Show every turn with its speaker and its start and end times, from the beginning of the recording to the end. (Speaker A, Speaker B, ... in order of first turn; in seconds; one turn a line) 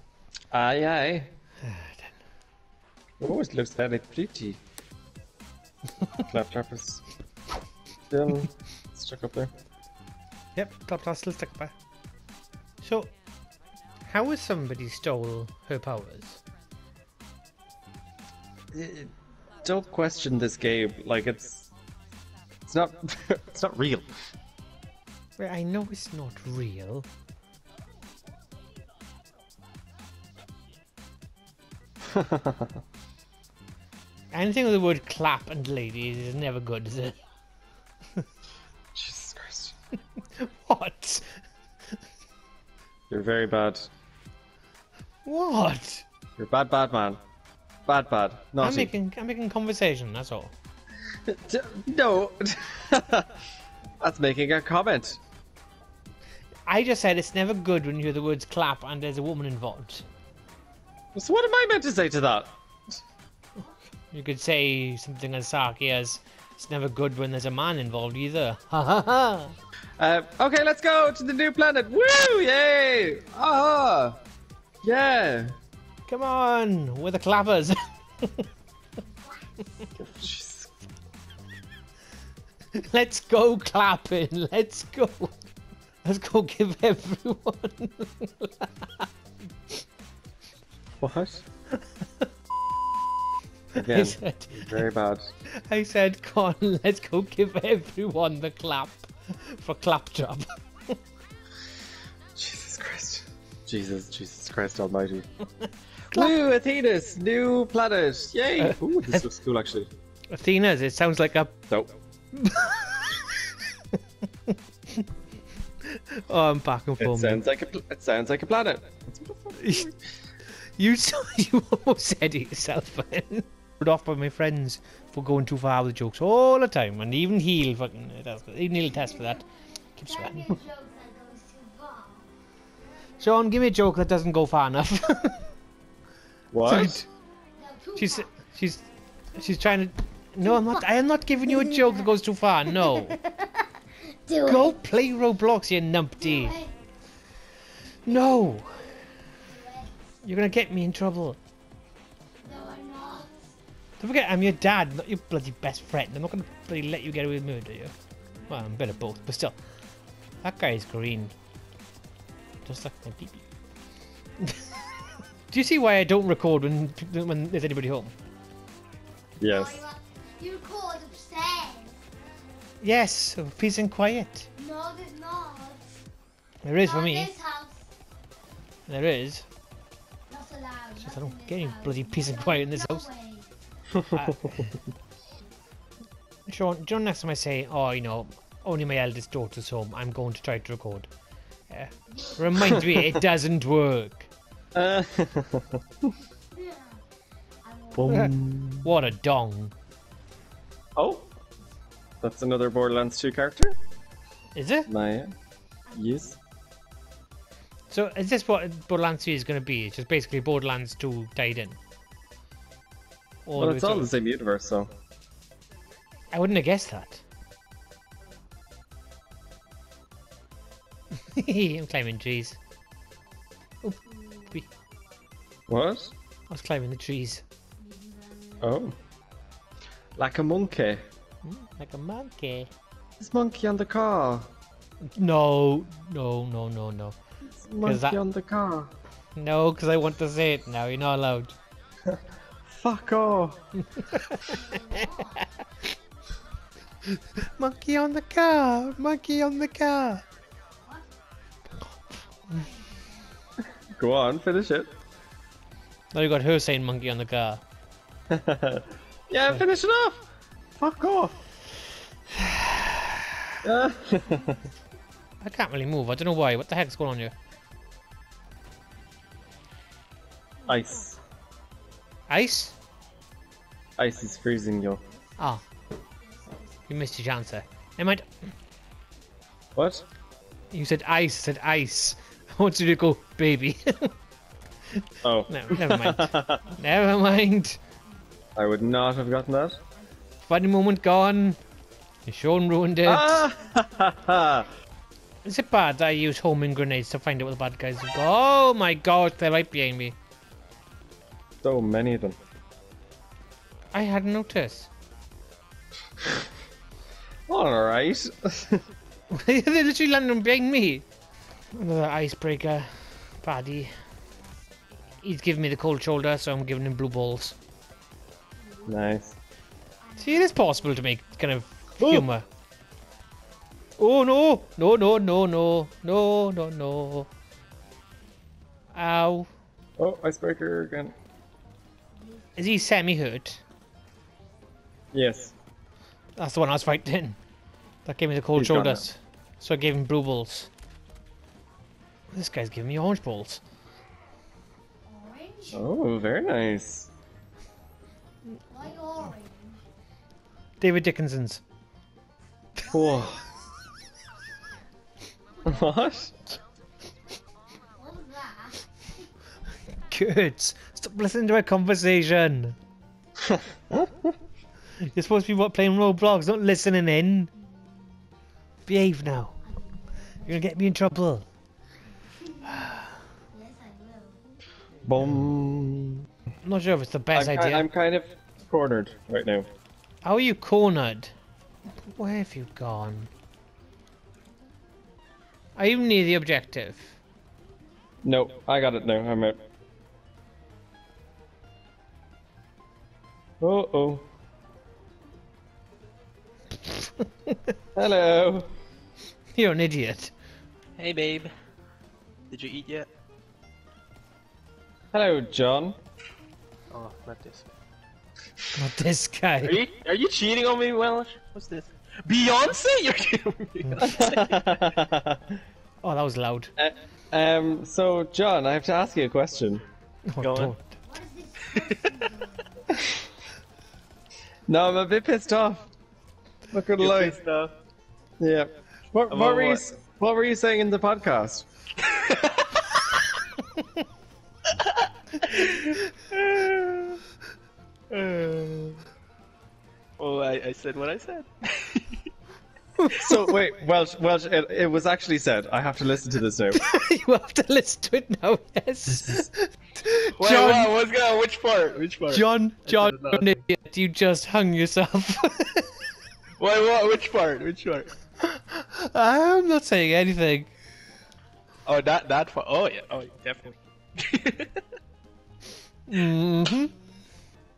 Speaker A: 0.5-1.3
Speaker B: 1.6-2.2
Speaker A: 3.2-4.6
Speaker A: 6.3-7.0
Speaker A: 8.1-9.5
Speaker B: 10.6-11.7
Speaker B: 12.8-13.1
Speaker B: 14.1-16.4
Speaker A: 18.7-19.1
Speaker A: 19.6-21.7
Speaker A: 22.7-24.1
Speaker B: 25.4-27.1
Speaker A: 32.1-32.7
Speaker B: 34.3-37.2
Speaker A: 38.9-39.8
Speaker B: 40.4-41.3
Speaker A: 43.1-43.9
Speaker B: 45.2-46.0
Speaker A: 46.4-47.2
Speaker A: 47.9-48.9
Speaker B: 48.6-50.5
Speaker A: 51.3-53.3
Speaker A: 54.0-55.2
Speaker B: 56.7-60.1
Speaker A: 61.1-62.5
Speaker B: 64.1-69.5
Speaker A: 70.0-74.2
Speaker A: 74.8-75.5
Speaker B: 76.1-78.5
Speaker A: 80.0-80.7
Speaker B: 82.8-85.4
Speaker B: 86.0-89.1
Speaker A: 91.0-91.4
Speaker B: 93.8-94.8
Speaker A: 93.8-95.3
Speaker B: 95.7-101.0
Speaker A: 102.4-105.3
Speaker A: 106.1-109.9
Speaker B: 110.3-111.5
Speaker B: 112.3-113.3
Speaker B: 114.5-115.0
Speaker B: 115.9-117.4
Speaker A: 117.0-119.9
Speaker B: 119.6-119.9
Speaker B: 120.8-129.4
Speaker B: 130.0-130.6
Speaker C: 130.1-132.3
Speaker B: 133.2-135.4
Speaker A: 136.5-137.0
Speaker B: 136.7-137.1
Speaker C: 137.6-138.2
Speaker B: 138.0-143.2
Speaker C: 144.1-144.7
Speaker B: 144.4-146.6
Speaker C: 146.2-146.7
Speaker B: 148.1-148.9
Speaker C: 149.5-149.9
Speaker B: 150.2-151.4
Speaker C: 152.4-153.3
Speaker B: 154.0-157.9
Speaker B: 158.5-159.6
Speaker B: 160.4-161.3
Speaker B: 162.7-163.4
Speaker B: 164.4-164.8
Speaker B: 165.5-168.1
Speaker A: 169.4-169.8
Speaker C: 169.4-172.0
Speaker B: 172.8-174.5
Speaker C: 174.6-176.0
Speaker B: 176.6-177.3
Speaker C: 176.8-177.9
Speaker B: 178.9-179.5
Speaker C: 180.3-183.5
Speaker B: 181.0-183.1
Speaker A: 184.0-184.6
Speaker B: 184.2-184.7
Speaker B: 186.5-191.1
Speaker B: 191.7-194.3
Speaker A: 194.8-195.8
Speaker C: 196.6-197.0
Speaker C: 197.6-198.2
Speaker A: 197.9-198.9
Speaker B: 198.8-199.7
Speaker A: 201.0-201.3
Speaker A: 202.2-203.8
Speaker B: 204.6-204.9
Speaker A: 204.9-205.3
Speaker A: 205.9-206.4
Speaker B: 207.9-211.8
Speaker B: 213.5-214.1
Speaker A: 213.6-214.9
Speaker B: 216.3-217.2
Speaker B: 221.3-222.6
Speaker B: 223.8-224.7
Speaker A: 225.7-226.1
Speaker B: 226.5-227.4
Speaker C: 227.8-228.6
Speaker A: 228.6-228.9
Speaker A: 230.2-231.0
Speaker B: 231.4-232.7
Speaker A: 233.2-234.5
Speaker B: 235.2-237.2
Speaker A: 237.6-238.9
Speaker B: 237.8-238.2
Speaker B: 239.4-241.6
Speaker A: 242.8-243.6
Speaker B: 243.9-244.8
Speaker C: 244.5-245.5
Speaker B: 247.2-250.2
Speaker C: 252.5-253.3
Speaker A: 254.0-254.9
Speaker B: 256.1-257.6
Speaker A: 258.3-260.2
Speaker A: 260.8-261.4
Speaker B: 262.4-263.2
Speaker A: 263.6-264.6
Speaker B: 265.4-267.3
Speaker A: 270.7-271.2
Speaker B: 272.3-272.8
Speaker A: 274.0-275.0
Speaker C: 276.2-276.7
Speaker B: 276.9-278.2
Speaker A: 279.8-280.1
Speaker B: 280.7-284.1
Speaker B: 285.0-287.8
Speaker A: 285.2-286.7
Speaker A: 288.6-289.8
Speaker B: 290.4-291.6
Speaker B: 292.3-293.5
Speaker A: 293.1-294.7
Speaker B: 295.4-300.2
Speaker A: 301.6-302.4
Speaker B: 303.9-304.9
Speaker A: 307.5-308.8
Speaker B: 309.3-311.1
Speaker B: 311.7-312.9
Speaker B: 313.4-313.9
Speaker B: 315.2-317.6
Speaker A: 318.9-319.4
Speaker C: 320.1-320.5
Speaker B: 320.2-322.4
Speaker A: 322.0-322.2
Speaker B: 324.0-327.3
Speaker B: 328.9-329.5
Speaker A: 330.0-331.1
Speaker C: 332.2-332.5
Speaker B: 332.6-333.6
Speaker A: 335.1-335.5
Speaker B: 336.4-337.4
Speaker B: 338.1-340.7
Speaker A: 338.6-339.0
Speaker B: 342.3-343.6
Speaker C: 345.1-345.8
Speaker A: 345.7-347.1
Speaker C: 348.7-349.8
Speaker B: 350.8-351.6
Speaker A: 352.9-353.4
Speaker A: 355.6-356.6
Speaker C: 357.9-358.8
Speaker B: 360.0-362.8
Speaker A: 363.5-364.1
Speaker B: 365.1-367.5
Speaker B: 368.9-369.6
Speaker C: 369.7-370.5
Speaker B: 370.4-371.4
Speaker B: 372.7-373.1
Speaker C: 373.5-374.4
Speaker A: 375.1-376.2
Speaker B: 376.6-377.9
Speaker A: 377.3-379.7
Speaker B: 380.2-381.3
Speaker B: 382.1-383.3
Speaker B: 385.8-387.1
Speaker A: 388.2-389.6
Speaker A: 393.6-394.2
Speaker B: 396.8-397.7
Speaker A: 397.9-398.7
Speaker B: 399.6-400.3
Speaker D: 401.0-401.5
Speaker D: 402.5-403.1
Speaker A: 405.1-406.0
Speaker D: 406.9-407.7
Speaker B: 408.7-409.8
Speaker D: 409.6-414.6
Speaker B: 413.9-414.1
Speaker A: 414.0-415.4
Speaker B: 416.0-416.7
Speaker A: 416.8-419.8
Speaker B: 420.3-420.8
Speaker D: 420.4-420.8
Speaker C: 421.0-422.8
Speaker D: 421.7-422.3
Speaker A: 424.7-425.9
Speaker A: 426.7-427.4
Speaker D: 427.0-427.7
Speaker A: 428.4-431.6
Speaker D: 429.3-429.9
Speaker D: 432.0-433.2
Speaker D: 435.4-435.9
Speaker D: 438.1-439.0
Speaker D: 440.2-442.2
Speaker B: 443.0-443.5
Speaker A: 443.2-446.8
Speaker B: 446.8-450.9
Speaker D: 450.4-453.5
Speaker B: 452.3-455.9
Speaker D: 456.6-458.1
Speaker B: 458.4-460.7
Speaker D: 461.9-464.8
Speaker B: 466.1-466.9